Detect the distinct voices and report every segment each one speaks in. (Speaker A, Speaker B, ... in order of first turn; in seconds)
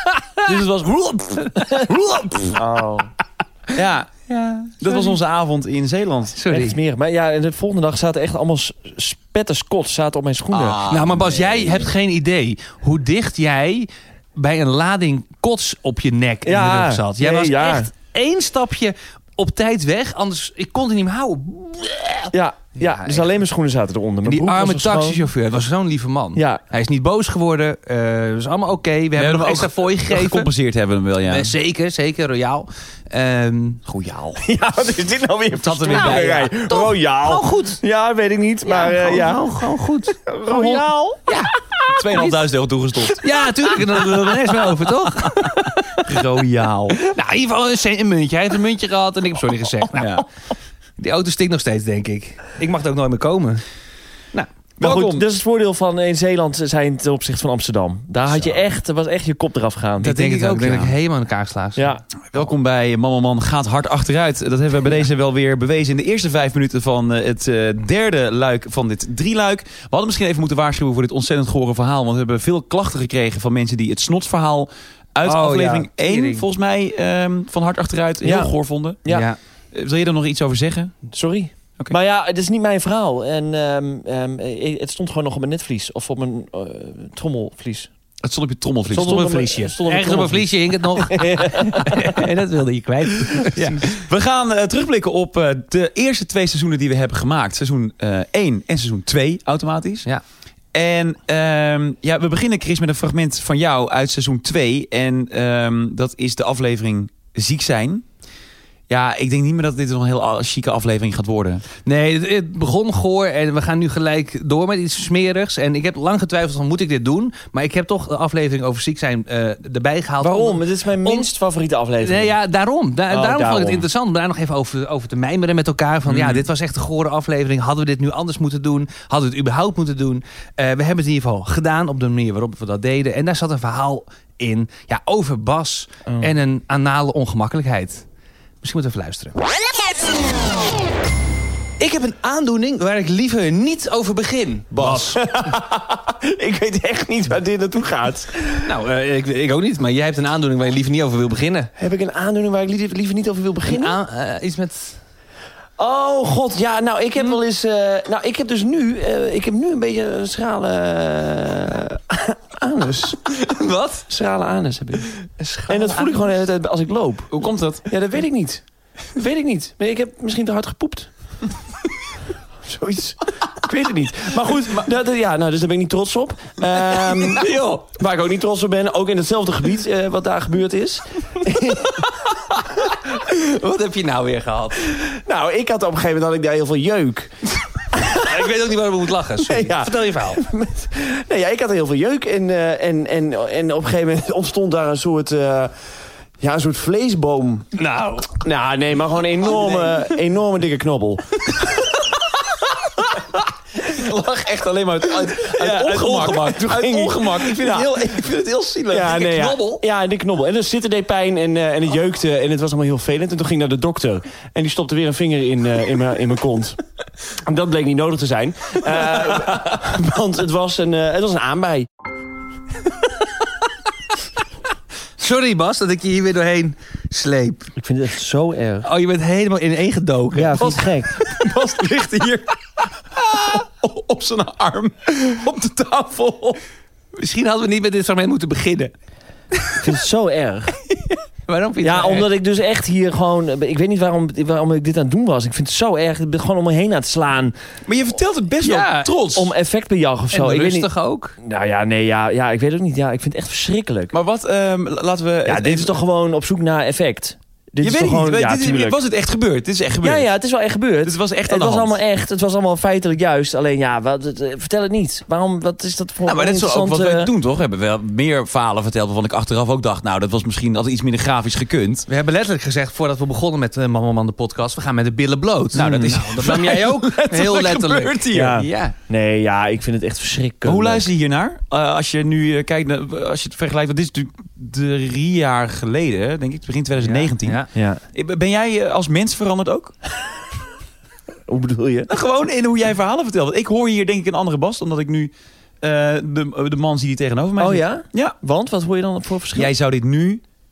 Speaker A: 0.4-1.8, 3.7-4.3, 4.8-6.4, 10.5-11.9, 29.2-31.5, 33.9-34.4, 35.6-36.5, 41.9-43.3, 46.0-47.0, 49.9-50.2, 54.8-55.3, 58.3-58.6, 60.0-61.0, 62.3-79.0, 79.7-81.0, 88.2-89.3, 93.6-100.1, 100.7-108.0, 108.9-111.7, 126.1-126.4, 144.7-145.1, 167.3-167.8, 199.6-199.9, 203.8-209.4, 231.2-236.6, 247.9-249.5, 254.1-255.9, 257.8-260.3, 261.0-262.0, 266.2-272.1, 275.7-278.6, 280.6-290.0, 292.1-298.4, 299.6-300.4
Speaker B: 1.5-2.5, 4.3-5.2, 6.3-6.8, 10.9-23.3, 24.2-30.5, 31.3-33.8, 35.9-37.8, 38.7-41.5, 43.2-46.0, 47.0-50.2, 51.0-53.6, 60.0-61.9, 75.2-76.5, 79.1-79.4, 88.9-93.9, 111.8-121.3, 122.0-138.1, 138.6-139.3, 141.8-145.2, 148.6-151.7, 153.7-155.0, 163.3-164.1, 165.4-166.3, 177.1-177.8, 183.0-184.9, 188.0-190.4, 197.8-198.4, 199.4-199.9, 205.6-206.9, 209.1-209.8, 225.2-227.7, 228.8-230.9, 237.2-238.9, 241.5-242.3, 248.6-249.1, 250.3-251.3, 272.1-278.9, 287.0-287.7
Speaker C: 2.6-3.1, 6.5-10.8, 16.4-17.9, 22.3-25.3, 26.4-26.6, 34.4-39.7, 40.2-41.2, 54.8-60.2, 61.8-62.0, 78.2-79.3, 81.1-87.9, 88.9-92.2, 120.2-122.3, 123.1-123.9, 145.0-148.7, 151.8-154.0, 155.8-163.2, 164.1-165.1, 165.7-167.3, 167.9-171.1, 172.6-182.0, 185.0-187.3, 189.4-195.7, 196.4-197.7, 198.4-201.6, 205.6-207.9, 208.9-216.8, 217.4-221.9, 227.8-228.9, 230.4-231.2, 239.8-240.8, 241.8-247.6, 249.3-250.9, 251.4-254.1, 255.4-259.0, 260.0-267.3, 275.8-276.7, 278.3-281.1, 287.7-288.0, 291.5-292.1, 297.6-299.7